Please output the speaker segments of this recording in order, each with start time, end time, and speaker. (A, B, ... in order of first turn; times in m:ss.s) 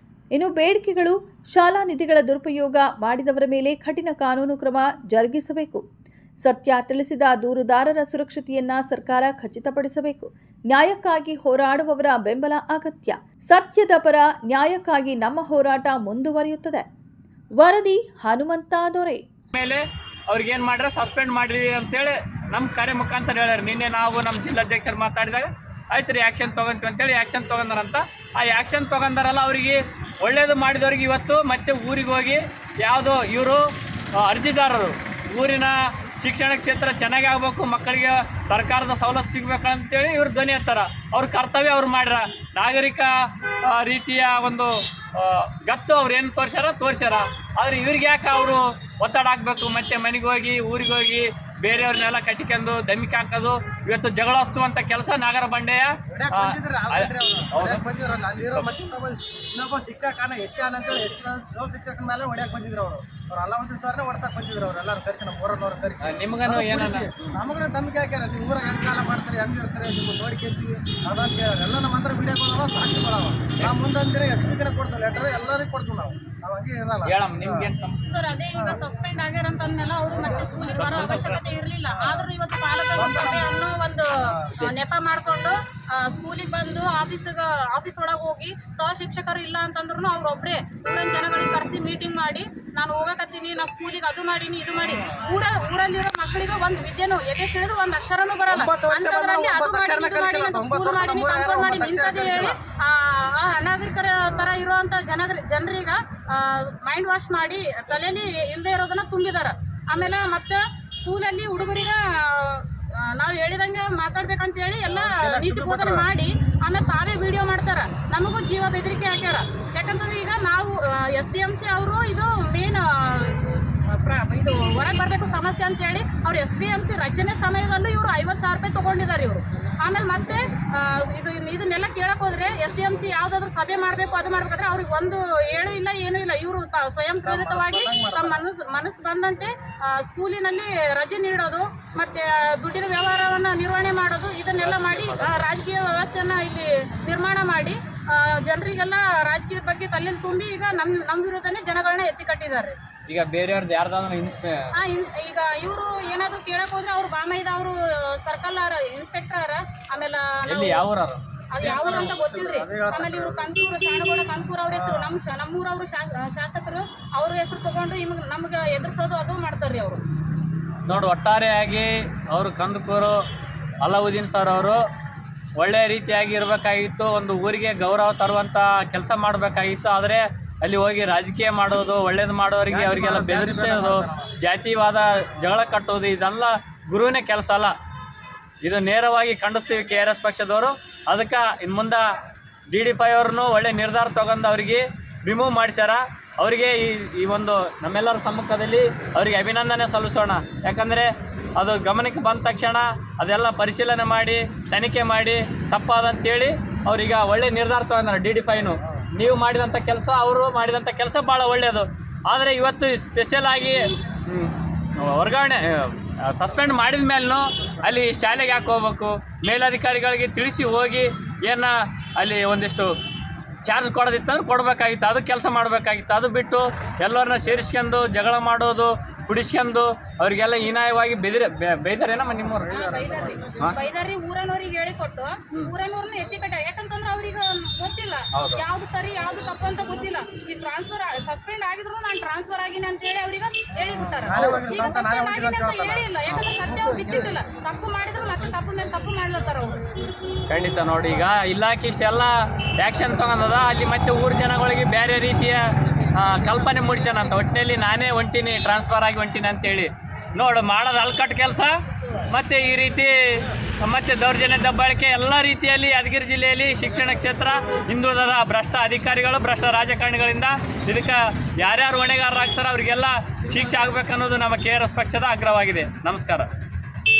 0:00.3-0:05.8 A
0:06.4-0:16.8 A
0:17.6-0:19.2 A
0:19.5-0:57.8 B
0:56.1-1:17.7 C
0:58.5-0:58.7 B
1:06.0-1:07.4 B
1:17.0-1:18.0 B
1:18.0-2:32.8 D
1:18.5-1:18.8 C
1:20.8-1:21.4 B
1:21.9-1:22.3 C
1:23.0-1:23.5 C
1:24.3-1:24.5 C
1:38.5-1:42.5 C
1:54.9-1:56.1 C
2:17.2-2:18.4 C
2:24.6-2:25.4 B
2:33.0-2:34.7 B
2:34.7-2:40.8 D
2:40.4-2:41.2 B
2:41.5-2:50.0 D
2:41.6-2:43.5 C
2:44.7-2:45.1 C
2:50.8-2:53.2 B
2:53.8-2:54.8 B
2:55.6-3:07.7 B
3:02.7-3:04.3 C
3:08.6-3:12.1 B
3:12.7-3:42.9 B
3:43.6-3:52.8 B
3:52.7-4:09.8 D
3:52.8-3:53.6 C
3:58.3-3:58.6 B
4:04.3-4:06.1 C
4:04.4-4:04.7 B
4:10.5-4:21.8 B
4:22.3-4:36.5 B